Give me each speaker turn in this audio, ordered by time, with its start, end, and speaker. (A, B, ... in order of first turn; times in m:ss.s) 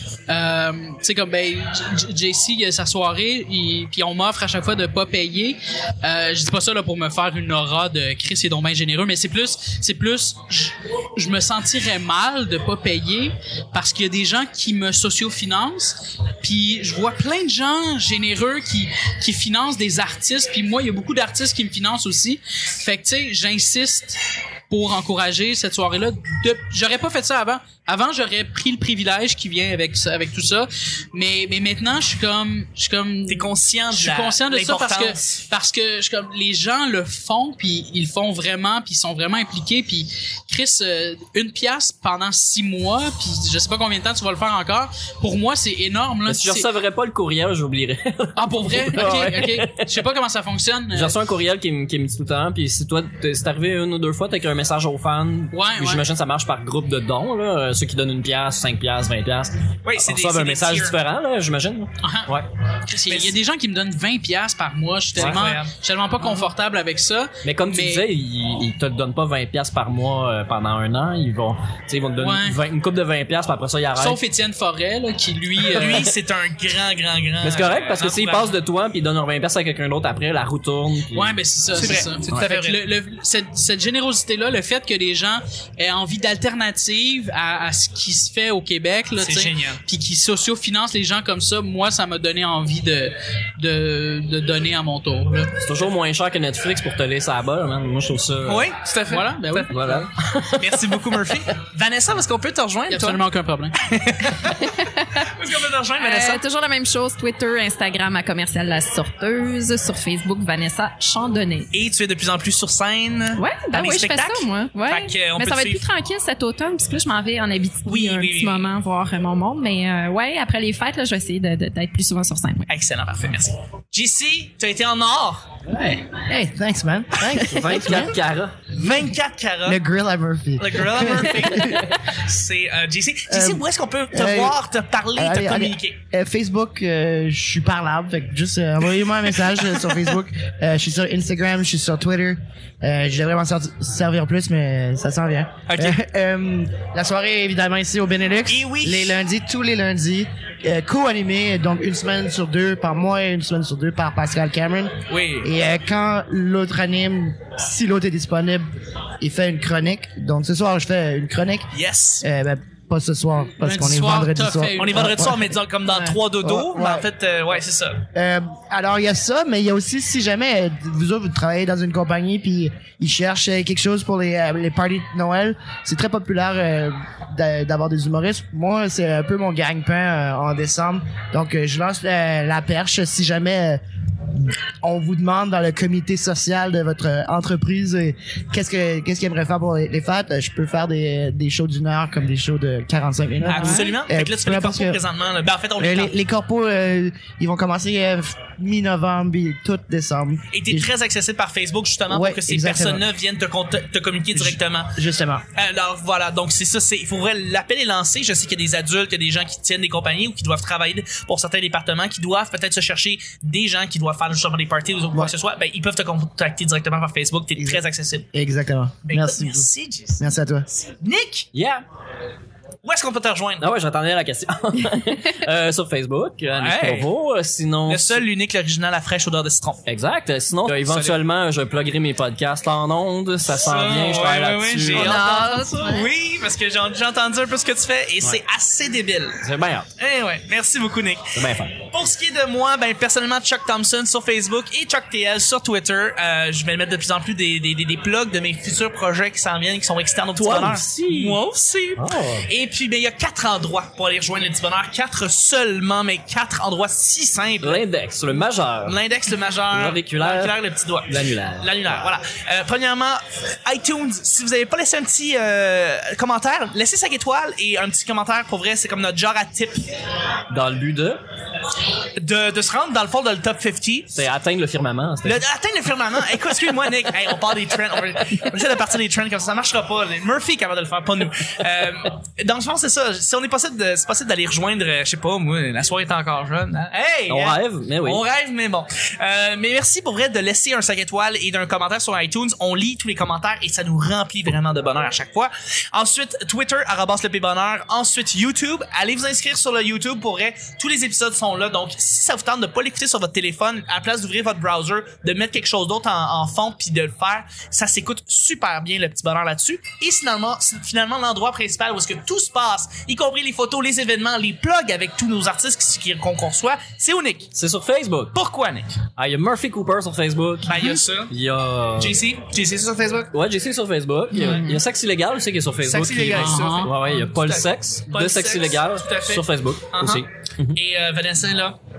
0:00.3-0:46.7 A
0:33.3-0:35.4 B
0:46.3-0:50.1 C
0:48.4-0:51.2 A
0:50.9-1:02.5 C
0:55.5-0:56.0 A
0:59.8-1:01.0 B
1:02.0-1:02.3 A
1:02.9-1:08.0 A
1:03.1-1:03.4 B
1:05.2-1:05.7 B
1:07.4-1:14.2 C
1:12.2-1:12.6 A
1:14.0-1:16.1 A
1:15.7-1:18.6 B
1:17.4-1:21.4 C
1:21.1-1:35.6 A
1:21.7-1:22.8 B
1:21.9-1:22.4 C
1:29.2-1:29.8 B
1:35.6-1:38.7 C
1:38.5-1:39.7 B
1:39.1-1:40.1 A
1:39.7-1:41.4 C
1:40.6-1:43.2 B
1:42.9-1:43.8 A
1:43.8-1:44.6 B
1:44.4-1:45.3 D
1:45.2-1:46.4 B
1:46.0-1:51.7 D
1:51.7-1:55.9 B
1:53.4-2:02.7 D
1:57.9-1:58.7 B
2:02.7-2:05.5 B
2:06.1-2:08.2 E
2:07.2-2:08.6 C
2:08.7-2:09.8 B
2:09.7-2:11.9 E
2:10.6-2:16.0 B
2:13.3-2:14.6 E
2:15.2-2:38.6 E
2:25.7-2:26.0 B
2:28.5-2:29.2 B
2:35.1-2:35.5 B
2:39.2-2:41.7 E
2:41.7-2:42.3 B
2:42.2-2:47.1 E
2:43.6-2:45.3 A
2:44.8-2:48.0 B
2:48.1-3:03.8 E
3:04.3-3:15.0 E
3:13.5-3:16.1 B
3:13.5-3:13.9 D
3:15.8-3:20.9 E
3:20.5-3:25.0 B
3:22.1-3:23.0 E
3:24.4-3:25.4 E
3:25.6-3:38.3 B
3:37.6-3:40.7 E
3:39.0-3:41.5 B
3:41.5-3:41.8 C
3:42.8-3:43.7 B
3:43.6-3:48.2 C
3:46.6-3:47.1 B
3:47.9-3:49.8 B
3:49.9-3:55.6 C
3:50.7-3:51.2 B
3:53.5-3:59.4 B
3:54.9-3:56.1 D
3:59.4-3:59.9 C
4:00.0-4:17.8 B
4:01.4-4:01.8 C
4:10.4-4:11.4 C
4:12.0-4:12.5 C
4:17.6-4:19.0 C
4:18.8-4:29.8 B
4:19.7-4:20.6 C
4:21.1-4:22.0 C
4:30.5-4:31.2 C
4:32.2-4:34.2 B
4:34.2-4:35.4 C
4:35.2-5:17.5 B
4:47.3-4:48.2 C
5:17.6-5:18.4 C
5:18.3-5:19.0 B
5:19.2-5:22.2 C
5:20.7-5:21.3 B
5:20.7-5:21.0 A
5:22.0-5:23.3 B
5:23.3-5:30.8 C
5:24.3-5:24.8 D
5:24.4-5:24.7 B
5:25.9-5:31.8 B
5:26.4-5:26.9 A